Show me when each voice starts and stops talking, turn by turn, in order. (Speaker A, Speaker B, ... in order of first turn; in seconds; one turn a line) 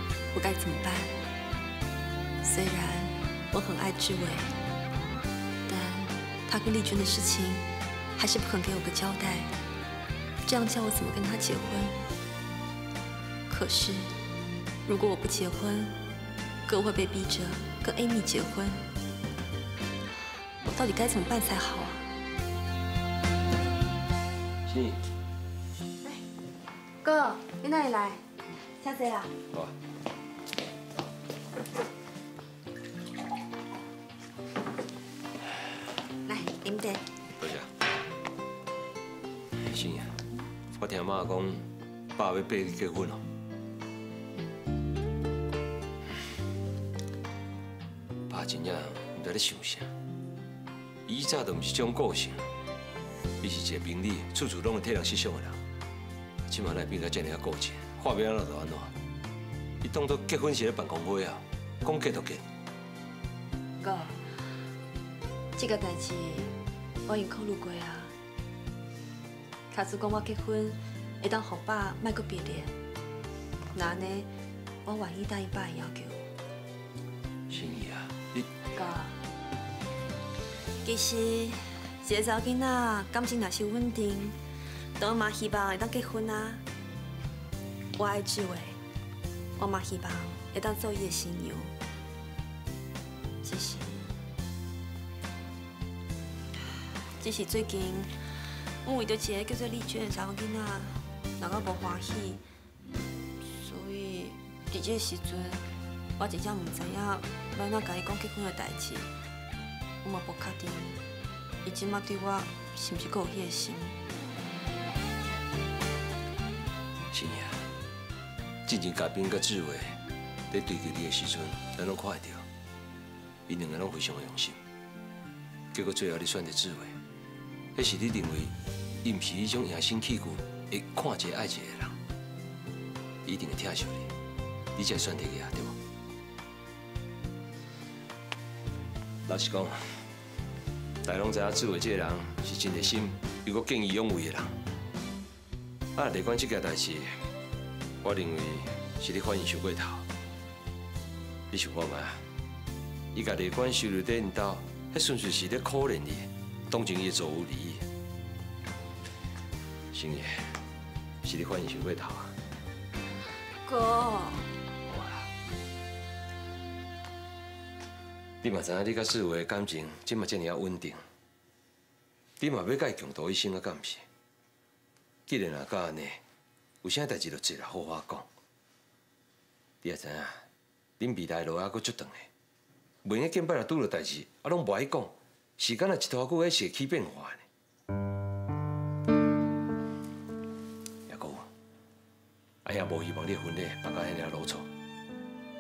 Speaker A: 0.3-1.1
Speaker A: 2.4-4.5
Speaker A: 5.7-7.6
Speaker A: 8.2-9.5
Speaker A: 10.4-12.0
Speaker A: 13.5-14.1
Speaker A: 14.8-15.9
Speaker A: 16.7-18.9
Speaker A: 20.6-22.0
Speaker B: 24.7-25.0
Speaker A: 27.0-28.2
Speaker A: 28.8-29.3
Speaker A: 36.3-37.1
Speaker B: 37.4-37.7
Speaker B: 39.6-40.2
Speaker B: 40.8-43.2
Speaker B: 48.3-49.9
Speaker B: 51.1-52.4
Speaker B: 53.4-55.6
Speaker B: 56.5-58.9
Speaker B: 59.8-62.4
Speaker A: 63.8-64.2
Speaker A: 65.5-66.5
Speaker A: 67.0-68.1
Speaker A: 69.7-72.7
Speaker A: 73.7-74.3
Speaker A: 74.8-76.2
Speaker B: 77.5-78.5
Speaker A: 78.7-79.1
Speaker A: 80.8-84.4
Speaker A: 85.0-86.6
Speaker A: 88.0-88.8
Speaker A: 89.5-91.7
Speaker A: 93.4-94.1
Speaker A: 97.1-98.1
Speaker A: 98.8-102.4
Speaker A: 103.4-105.6
Speaker A: 106.2-109.1
Speaker A: 110.0-111.0
Speaker A: 111.6-114.0
Speaker B: 117.1-117.6
Speaker B: 118.7-120.0
Speaker B: 120.5-122.4
Speaker B: 123.5-124.6
Speaker B: 125.7-126.9
Speaker B: 127.8-132.0
Speaker B: 133.2-134.1
Speaker B: 134.8-135.8
Speaker B: 139.2-140.1
Speaker B: 141.0-144.6
Speaker B: 145.9-147.1
Speaker B: 148.0-150.0
Speaker B: 151.5-152.2
Speaker B: 153.1-157.8
Speaker B: 159.9-160.6
Speaker B: 161.2-162.3
Speaker A: 163.6-164.5
Speaker B: 164.9-165.3
Speaker B: 168.4-171.0
Speaker B: 172.4-174.0
Speaker B: 175.3-176.2
Speaker B: 176.8-178.2
Speaker B: 179.8-180.4
Speaker B: 181.0-182.3
Speaker B: 183.0-187.4
Speaker B: 191.1-191.5
Speaker B: 192.6-194.7